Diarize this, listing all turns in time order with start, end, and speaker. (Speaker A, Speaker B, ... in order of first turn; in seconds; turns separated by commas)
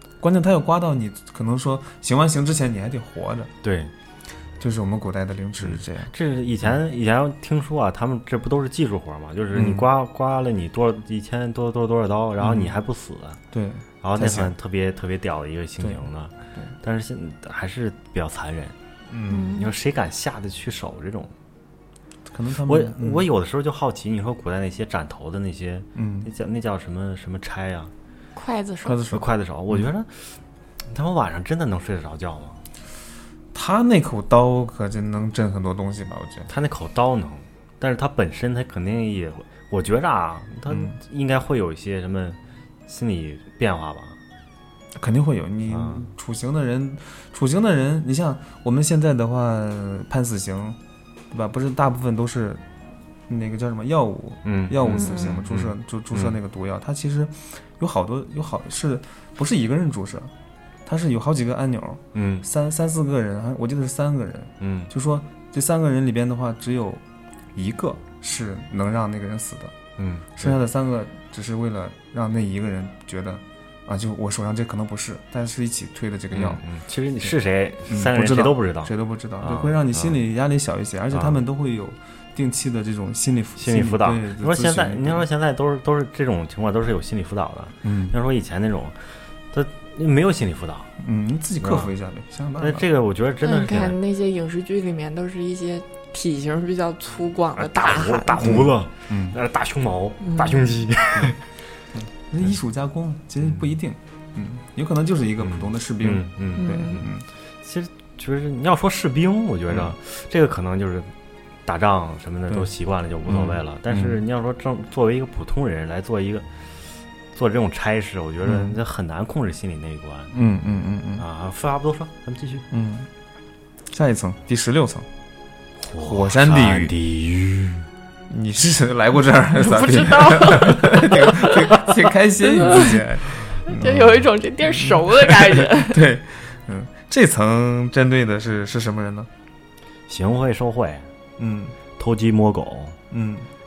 Speaker A: 0.2-3.5, Speaker B: 3.6-3.9, Speaker A: 4.6-6.1, Speaker B: 5.6-13.4, Speaker A: 9.5-9.9, Speaker A: 12.4-12.7, Speaker A: 13.5-14.5, Speaker B: 14.0-18.7, Speaker A: 19.1-19.5, Speaker C: 19.3-19.7, Speaker B: 19.5-21.3, Speaker A: 22.3-23.2, Speaker B: 22.6-27.9, Speaker A: 25.9-26.3, Speaker C: 28.3-29.0, Speaker A: 28.8-29.9, Speaker B: 29.1-32.6, Speaker A: 33.5-36.5, Speaker B: 36.5-44.2, Speaker A: 40.7-41.0, Speaker A: 44.9-50.8, Speaker B: 45.7-46.0, Speaker A: 51.3-52.6, Speaker A: 53.3-60.3, Speaker B: 54.4-56.3, Speaker C: 54.9-55.4, Speaker A: 60.9-67.0, Speaker B: 62.1-62.4, Speaker B: 64.6-64.9, Speaker A: 67.5-69.7, Speaker B: 70.0-70.6, Speaker A: 70.4-76.6, Speaker B: 76.3-80.2, Speaker A: 77.9-85.2, Speaker B: 81.1-81.4, Speaker B: 83.6-90.9, Speaker A: 87.8-88.1, Speaker A: 91.0-92.8, Speaker B: 91.6-91.9, Speaker B: 92.6-94.0, Speaker C: 93.4-98.6, Speaker B: 97.5-101.4, Speaker A: 98.4-99.3, Speaker C: 100.2-100.6, Speaker A: 101.9-107.2, Speaker B: 105.4-107.1, Speaker C: 106.6-107.0, Speaker B: 107.6-111.1, Speaker B: 111.6-116.5, Speaker A: 113.3-114.2, Speaker B: 117.3-120.3, Speaker A: 118.4-118.8, Speaker A: 120.3-121.2, Speaker B: 121.2-122.7, Speaker A: 122.7-123.1, Speaker A: 123.9-125.1, Speaker B: 125.8-127.8, Speaker A: 126.0-126.9, Speaker A: 128.3-139.3, Speaker C: 129.6-133.0, Speaker C: 133.7-136.0, Speaker B: 140.1-141.1, Speaker A: 141.4-141.8, Speaker B: 142.0-143.0, Speaker A: 143.1-143.5